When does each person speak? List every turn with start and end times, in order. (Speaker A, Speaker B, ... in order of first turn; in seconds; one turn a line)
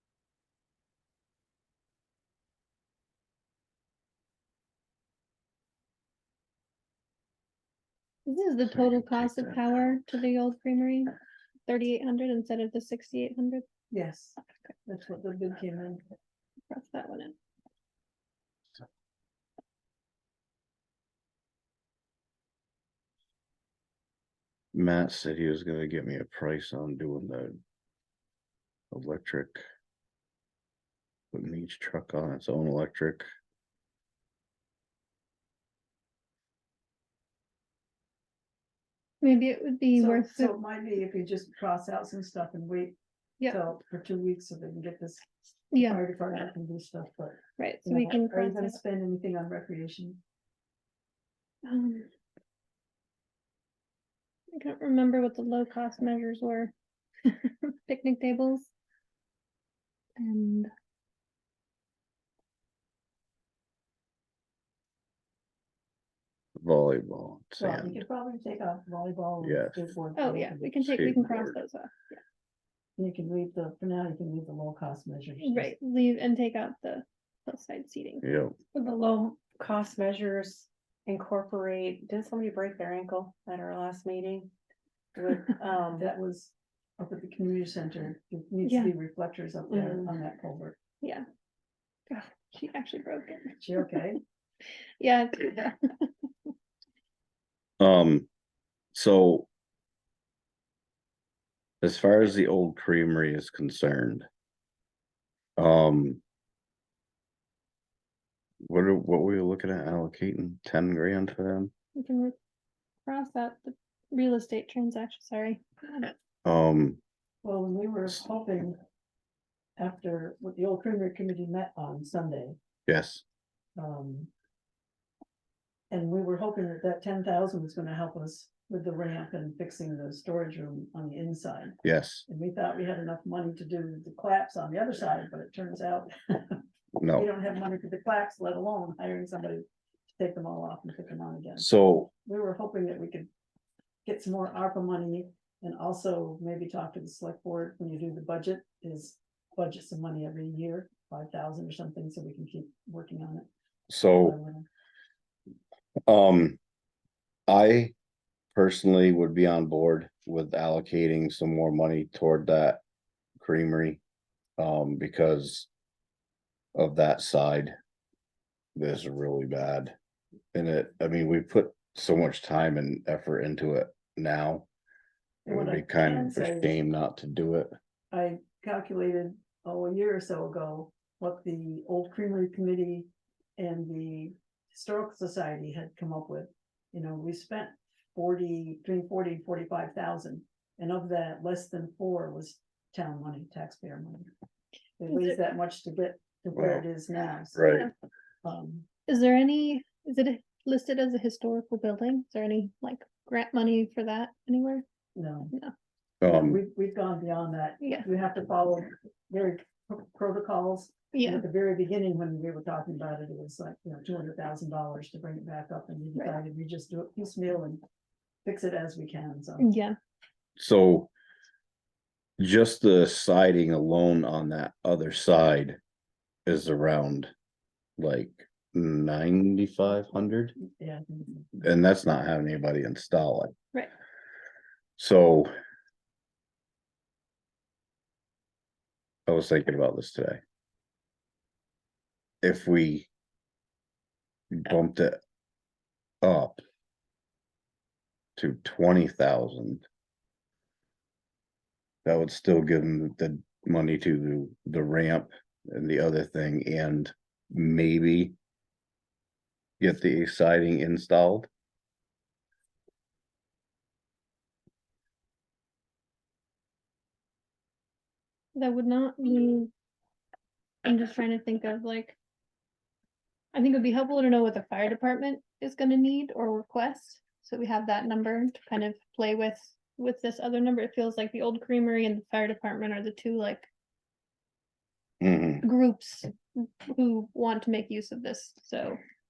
Speaker A: 8.2-11.1
Speaker A: 11.7-13.6
Speaker B: 13.9-16.0
Speaker A: 16.7-17.3
Speaker C: 24.7-27.6
Speaker C: 28.9-29.6
Speaker C: 31.3-33.2
Speaker A: 39.2-40.6
Speaker B: 39.9-50.2
Speaker A: 45.7-46.0
Speaker A: 47.6-48.8
Speaker A: 51.6-52.1
Speaker A: 54.5-56.7
Speaker A: 57.2-58.7
Speaker A: 60.2-60.7
Speaker C: 66.6-68.0
Speaker B: 67.6-70.8
Speaker C: 69.4-69.8
Speaker A: 70.2-72.1
Speaker C: 70.7-71.6
Speaker B: 73.0-75.7
Speaker A: 75.4-78.2
Speaker C: 78.2-78.5
Speaker D: 78.7-84.5
Speaker D: 85.1-86.1
Speaker B: 86.0-90.8
Speaker A: 88.6-88.9
Speaker D: 89.7-90.0
Speaker A: 92.1-93.8
Speaker B: 93.6-94.2
Speaker A: 95.0-96.1
Speaker C: 97.8-98.3
Speaker C: 98.9-99.5
Speaker C: 101.8-104.2
Speaker C: 105.6-106.2
Speaker C: 108.7-111.7
Speaker A: 112.0-112.3
Speaker A: 113.0-116.1
Speaker C: 116.4-117.0
Speaker B: 117.4-118.8
Speaker B: 119.8-122.6
Speaker C: 122.9-123.2
Speaker B: 123.8-124.3
Speaker B: 125.9-136.6
Speaker C: 131.8-132.2
Speaker C: 136.9-137.3
Speaker B: 137.2-139.7
Speaker B: 140.2-141.7
Speaker C: 141.6-142.1
Speaker B: 142.2-143.3
Speaker B: 144.0-153.5
Speaker C: 153.9-154.3
Speaker B: 154.0-154.7
Speaker C: 156.1-156.6
Speaker C: 157.5-157.9
Speaker C: 158.5-162.8
Speaker C: 163.4-164.0
Speaker C: 164.6-165.7
Speaker C: 166.8-167.8
Speaker C: 168.8-169.9
Speaker C: 170.5-174.7
Speaker B: 175.4-176.8
Speaker C: 175.5-177.7
Speaker B: 178.1-194.3
Speaker B: 195.0-197.8
Speaker A: 195.1-195.3
Speaker C: 196.6-196.8
Speaker C: 197.5-197.9
Speaker B: 198.4-198.9
Speaker A: 199.1-204.8
Speaker B: 205.2-205.5
Speaker C: 206.2-206.6
Speaker B: 206.2-217.8
Speaker A: 207.8-208.1
Speaker A: 211.1-211.4
Speaker B: 218.4-219.7
Speaker A: 219.6-219.9
Speaker C: 220.6-221.1
Speaker C: 222.4-225.8
Speaker C: 226.4-227.3
Speaker C: 228.0-230.5
Speaker B: 230.6-231.5
Speaker C: 231.6-233.5
Speaker C: 235.0-235.5
Speaker C: 239.3-240.4
Speaker C: 242.4-243.1
Speaker C: 244.5-245.2
Speaker C: 246.2-246.6
Speaker C: 248.4-249.8
Speaker C: 252.0-258.4
Speaker C: 259.8-261.5
Speaker A: 268.6-269.7
Speaker A: 270.9-272.2
Speaker A: 273.5-283.7
Speaker C: 285.2-285.6
Speaker A: 285.6-289.0